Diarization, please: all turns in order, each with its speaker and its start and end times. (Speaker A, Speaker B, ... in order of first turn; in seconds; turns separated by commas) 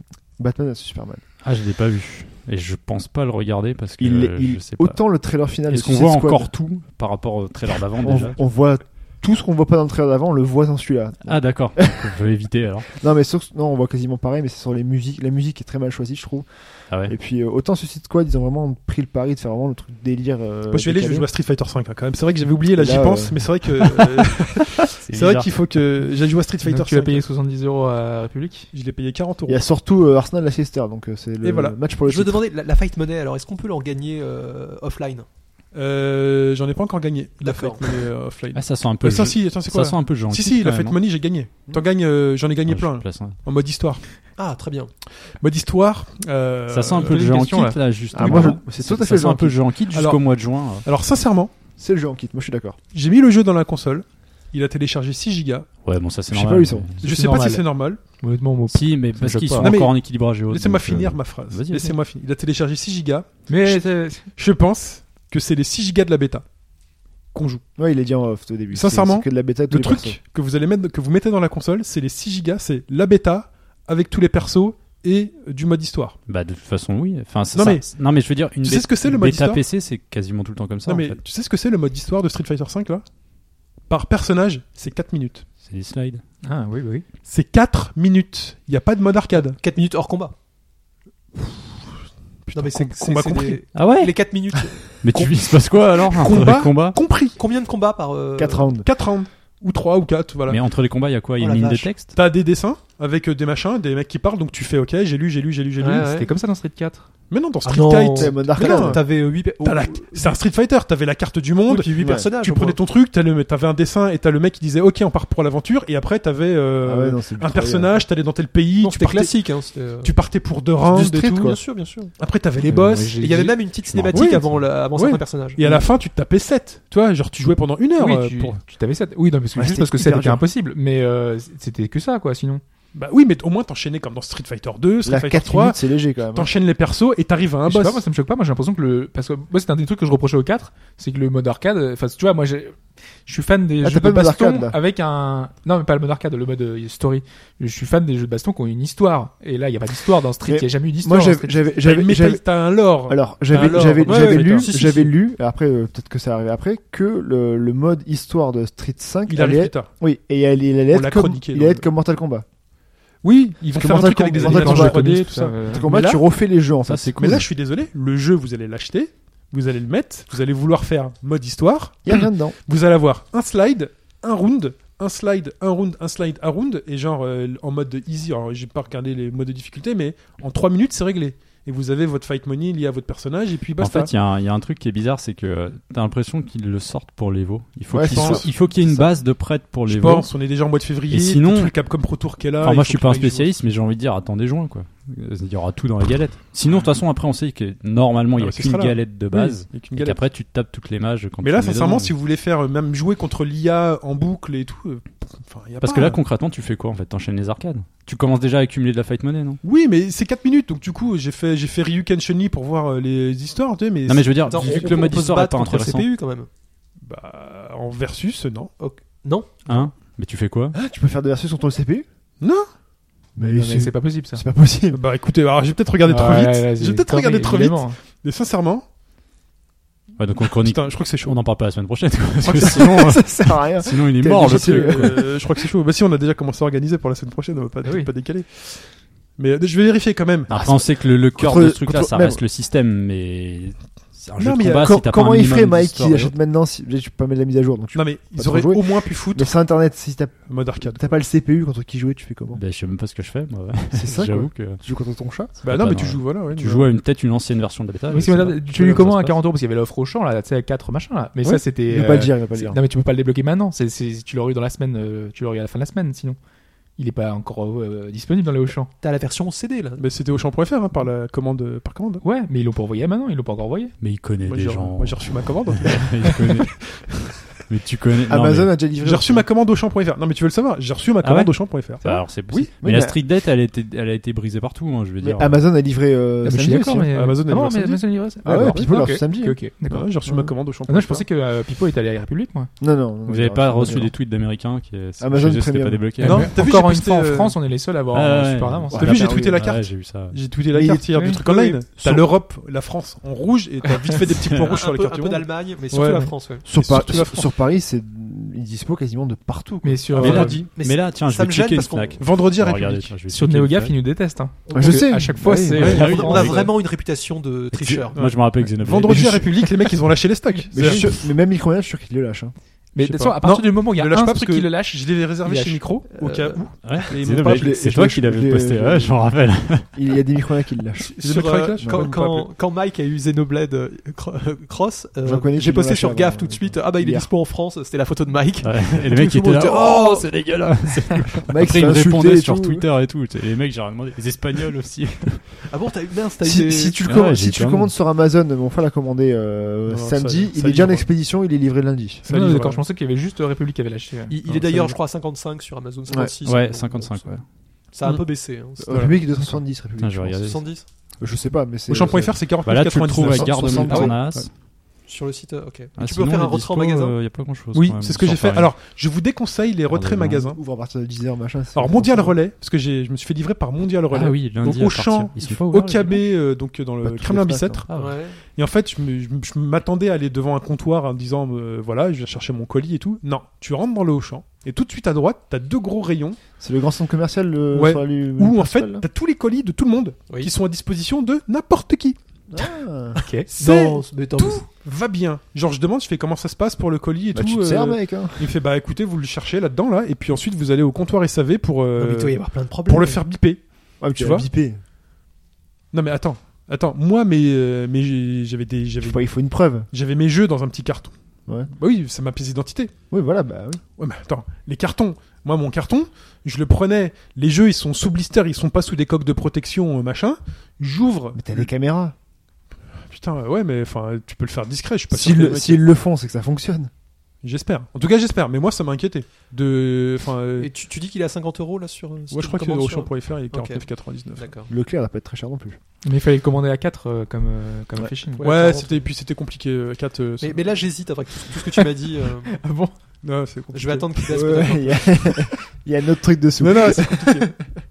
Speaker A: 0.4-1.2, Speaker B: 1.4-5.0, Speaker A: 4.0-6.5, Speaker B: 5.7-8.4, Speaker A: 8.0-12.2, Speaker B: 11.2-12.9, Speaker A: 12.9-16.5, Speaker B: 16.9-17.1, Speaker A: 17.0-21.3, Speaker C: 20.7-27.2, Speaker A: 22.8-23.4, Speaker B: 25.1-25.6, Speaker D: 26.6-28.7, Speaker C: 28.7-29.6, Speaker A: 29.5-32.4, Speaker C: 31.4-31.8, Speaker E: 32.0-35.3, Speaker C: 35.7-44.0, Speaker E: 37.4-38.1, Speaker B: 38.5-41.0, Speaker B: 42.6-43.4, Speaker E: 44.4-44.9, Speaker C: 45.4-47.3, Speaker B: 46.7-50.9, Speaker D: 47.0-48.5, Speaker A: 48.1-49.6, Speaker C: 49.9-50.3, Speaker C: 50.8-51.5, Speaker A: 51.8-52.8, Speaker C: 52.9-55.7, Speaker B: 55.8-57.0, Speaker A: 56.3-56.9, Speaker C: 57.0-58.0, Speaker D: 57.0-59.7, Speaker B: 58.7-62.0, Speaker C: 59.6-66.5, Speaker D: 63.5-64.3, Speaker C: 67.3-67.6, Speaker A: 67.8-70.2, Speaker C: 68.7-76.2, Speaker B: 76.3-81.2, Speaker C: 77.5-79.6, Speaker C: 80.8-83.0, Speaker C: 83.9-85.4, Speaker B: 85.6-86.2, Speaker D: 86.4-87.0, Speaker C: 87.2-89.6, Speaker E: 89.4-90.3, Speaker C: 91.3-91.8, Speaker C: 92.4-93.6, Speaker E: 92.5-95.0, Speaker B: 93.7-94.2, Speaker B: 95.0-97.0, Speaker C: 96.1-97.4, Speaker E: 97.4-98.7, Speaker A: 98.4-98.9, Speaker C: 98.8-100.6, Speaker B: 100.5-102.1, Speaker E: 101.4-102.0, Speaker C: 102.0-106.1, Speaker E: 105.8-106.3, Speaker D: 106.0-107.1, Speaker C: 107.3-121.6, Speaker E: 107.6-110.4, Speaker A: 108.1-109.0, Speaker E: 111.7-112.8, Speaker A: 112.0-112.3, Speaker A: 116.8-118.0, Speaker E: 118.8-120.2, Speaker A: 120.8-121.6, Speaker E: 120.9-122.2, Speaker C: 122.2-123.5, Speaker D: 122.6-123.6, Speaker E: 123.1-125.8, Speaker B: 123.8-124.6, Speaker C: 124.1-128.6, Speaker D: 128.0-132.6, Speaker A: 129.5-130.4, Speaker C: 132.9-138.0, Speaker A: 135.0-136.5, Speaker D: 137.7-151.6, Speaker A: 143.8-144.8, Speaker A: 150.4-152.4, Speaker C: 151.8-154.7, Speaker A: 153.1-162.4, Speaker E: 153.6-155.1, Speaker C: 159.3-159.9, Speaker C: 160.9-161.8, Speaker C: 163.2-166.2, Speaker A: 163.8-165.1, Speaker D: 164.3-165.8, Speaker A: 165.7-167.4, Speaker E: 165.8-166.2, Speaker B: 166.9-167.5, Speaker C: 167.2-184.1, Speaker A: 172.0-172.6, Speaker B: 183.8-190.3, Speaker A: 187.9-189.1, Speaker C: 188.0-188.5, Speaker C: 189.9-193.5, Speaker B: 191.1-191.7, Speaker B: 192.6-202.1, Speaker C: 198.4-200.2, Speaker C: 201.4-206.2, Speaker B: 205.8-209.6, Speaker C: 209.6-215.0, Speaker B: 214.1-216.1, Speaker E: 214.5-216.5, Speaker C: 217.0-218.7, Speaker E: 218.8-219.6, Speaker B: 219.7-220.8, Speaker A: 220.7-222.1, Speaker C: 222.4-222.7, Speaker A: 223.3-225.0, Speaker D: 223.4-224.4, Speaker C: 224.9-228.8, Speaker D: 226.0-228.0, Speaker B: 230.2-235.2, Speaker C: 230.5-231.4, Speaker A: 232.4-235.4, Speaker C: 232.6-232.8, Speaker C: 234.3-240.7, Speaker B: 240.5-246.3, Speaker A: 241.3-242.4, Speaker C: 244.4-244.9, Speaker A: 244.8-252.6, Speaker C: 247.9-249.6, Speaker C: 250.4-251.2, Speaker B: 252.5-254.8, Speaker A: 253.9-255.6, Speaker C: 255.6-256.9, Speaker B: 255.6-259.4, Speaker D: 258.1-266.4, Speaker A: 261.4-262.8, Speaker D: 267.0-268.9, Speaker E: 269.0-270.1, Speaker C: 270.0-272.2, Speaker D: 272.2-273.9, Speaker B: 274.0-278.8, Speaker C: 274.4-276.6, Speaker A: 278.3-279.4, Speaker C: 279.0-282.2, Speaker B: 281.2-285.6, Speaker A: 282.3-283.2, Speaker A: 285.2-287.1, Speaker D: 286.4-290.2, Speaker C: 287.1-289.1, Speaker A: 288.4-290.5, Speaker C: 289.8-291.2, Speaker D: 290.9-292.7, Speaker A: 292.8-294.1, Speaker B: 293.2-296.5, Speaker A: 295.2-296.1, Speaker D: 296.2-299.0, Speaker C: 296.2-297.6, Speaker B: 298.1-300.4, Speaker A: 298.9-299.7, Speaker C: 299.0-307.5, Speaker A: 300.7-302.3, Speaker D: 301.1-301.4, Speaker B: 304.5-304.8, Speaker E: 304.7-306.7, Speaker D: 305.9-306.3, Speaker A: 306.6-310.2, Speaker D: 309.8-310.6, Speaker C: 310.1-310.6, Speaker B: 310.1-313.9, Speaker E: 310.2-312.2, Speaker C: 312.2-313.1, Speaker D: 313.3-316.7, Speaker A: 314.7-316.0, Speaker C: 315.8-316.2, Speaker B: 315.8-316.8, Speaker E: 315.8-318.2, Speaker B: 317.7-319.6, Speaker C: 318.1-321.2, Speaker A: 319.1-319.4, Speaker A: 320.7-322.5, Speaker D: 322.9-325.8, Speaker C: 323.0-327.8, Speaker E: 326.2-327.1, Speaker B: 326.8-330.2, Speaker A: 327.3-331.2, Speaker E: 331.0-340.3, Speaker C: 331.2-332.5, Speaker A: 331.7-332.1, Speaker A: 335.2-337.3, Speaker B: 338.6-345.6, Speaker A: 341.5-342.8, Speaker E: 345.7-347.0, Speaker A: 346.4-352.2, Speaker B: 347.0-347.9, Speaker C: 349.9-351.1, Speaker C: 352.2-352.8, Speaker D: 352.3-354.3, Speaker E: 354.3-357.4, Speaker C: 354.4-354.9, Speaker A: 356.1-356.3, Speaker B: 356.4-357.4, Speaker E: 357.9-359.1, Speaker C: 358.0-358.3, Speaker A: 358.8-360.4, Speaker C: 358.9-359.1, Speaker B: 360.0-360.7, Speaker E: 360.4-360.9, Speaker A: 361.2-362.4, Speaker C: 361.9-364.5, Speaker B: 362.6-364.5, Speaker A: 363.2-364.2, Speaker E: 365.0-367.2, Speaker B: 366.0-368.8, Speaker C: 367.7-370.6, Speaker B: 369.9-370.4, Speaker A: 370.4-372.4, Speaker C: 371.7-377.9, Speaker B: 374.1-376.3, Speaker A: 377.0-377.8, Speaker B: 377.9-378.2, Speaker E: 377.9-378.4, Speaker C: 378.5-386.4, Speaker A: 386.6-389.0, Speaker C: 387.7-392.2, Speaker A: 392.5-393.2, Speaker D: 393.2-393.5, Speaker C: 393.5-404.4, Speaker E: 393.6-394.7, Speaker A: 397.3-398.6, Speaker E: 401.9-403.2, Speaker A: 404.0-404.8, Speaker C: 405.9-409.3, Speaker A: 409.0-409.9, Speaker C: 409.9-411.1, Speaker C: 411.7-412.9, Speaker A: 413.1-413.8, Speaker C: 414.0-421.7, Speaker A: 421.3-422.1, Speaker C: 422.9-425.9, Speaker A: 425.1-426.9, Speaker C: 427.4-430.7, Speaker E: 430.6-434.7, Speaker C: 432.3-434.5, Speaker A: 434.7-435.8, Speaker D: 436.0-438.5, Speaker E: 438.3-439.1, Speaker C: 438.4-440.9, Speaker E: 440.4-442.6, Speaker D: 442.5-442.9, Speaker C: 443.2-444.3, Speaker E: 443.7-445.2, Speaker A: 444.3-447.7, Speaker C: 446.6-447.6